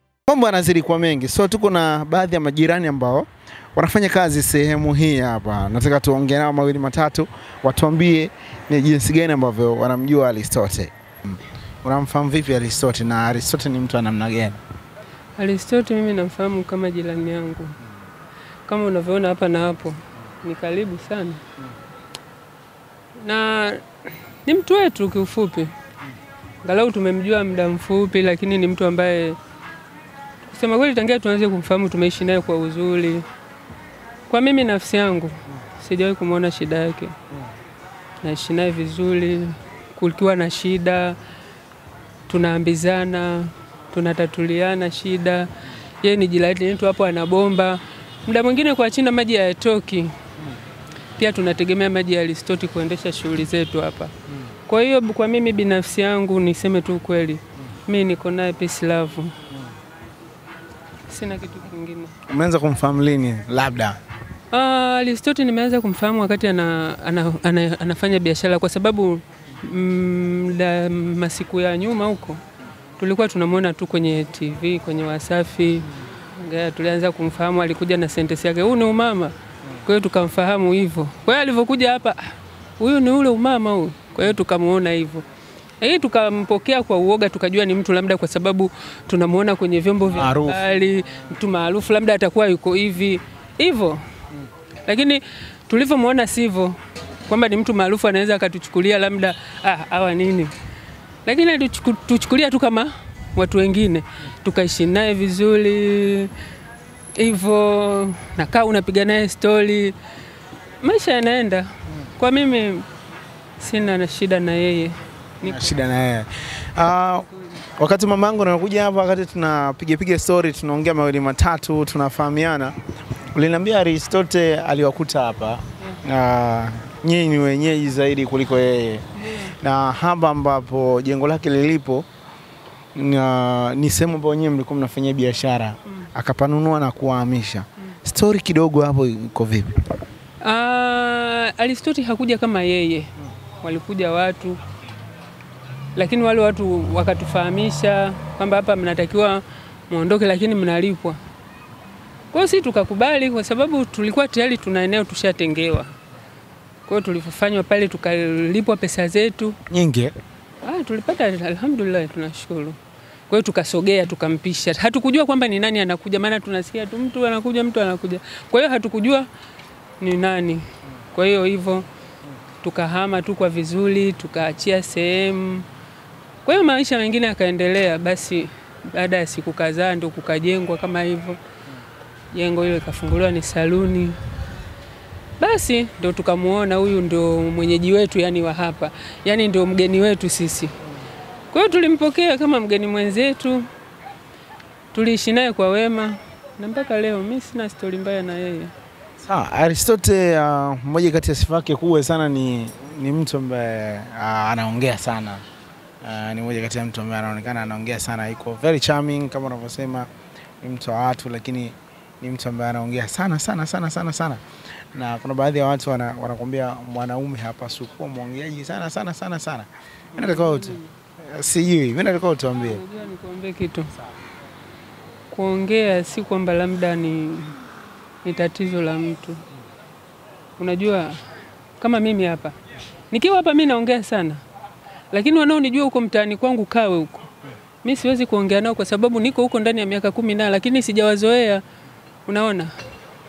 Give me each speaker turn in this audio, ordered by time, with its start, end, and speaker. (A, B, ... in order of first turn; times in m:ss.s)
0:00.3-0:14.6 A
0:15.4-0:17.7 B
0:18.6-0:21.4 B
0:23.2-0:23.8 B
0:24.4-0:25.7 B
0:26.6-0:29.4 B
0:30.4-0:33.2 B
0:34.3-0:37.2 B
0:38.2-0:41.2 B
0:42.3-0:45.5 B
0:46.0-0:50.2 B
0:51.2-0:54.1 B
0:54.6-0:59.4 B
1:01.1-1:02.1 B
1:02.3-1:04.0 A
1:04.5-1:12.4 B
1:13.0-1:25.2 B
1:25.8-1:34.0 B
1:30.1-1:30.6 A
1:34.8-1:40.5 B
1:41.2-1:46.3 B
1:47.1-1:49.9 B
1:50.8-1:52.9 B
1:53.6-1:55.7 B
1:55.4-1:57.3 A
1:57.8-2:02.7 A
2:03.3-2:12.0 A
2:09.2-2:09.5 B
2:12.9-2:19.7 A
2:20.4-2:24.6 B
2:25.9-2:31.2 B
2:32.3-2:35.9 B
2:36.9-2:39.6 B
2:39.7-2:40.1 A
2:40.6-2:42.8 B
2:43.3-2:49.3 B
2:50.0-2:51.8 B
2:52.6-2:55.7 B
2:56.4-3:01.4 B
3:02.3-3:04.2 B
3:05.4-3:10.7 B
3:11.5-3:13.7 B
3:14.9-3:18.7 B
3:19.2-3:25.4 A
3:26.0-3:30.1 A
3:30.6-3:34.4 A
3:34.9-3:42.8 A
3:40.2-3:40.9 B
3:42.6-3:43.9 B
3:45.3-3:47.6 B
3:48.2-3:49.4 B
3:50.6-3:51.2 B
3:51.8-3:52.6 B
3:53.1-3:54.4 B
3:55.1-3:57.3 B
3:57.8-4:01.6 B
4:02.2-4:02.7 B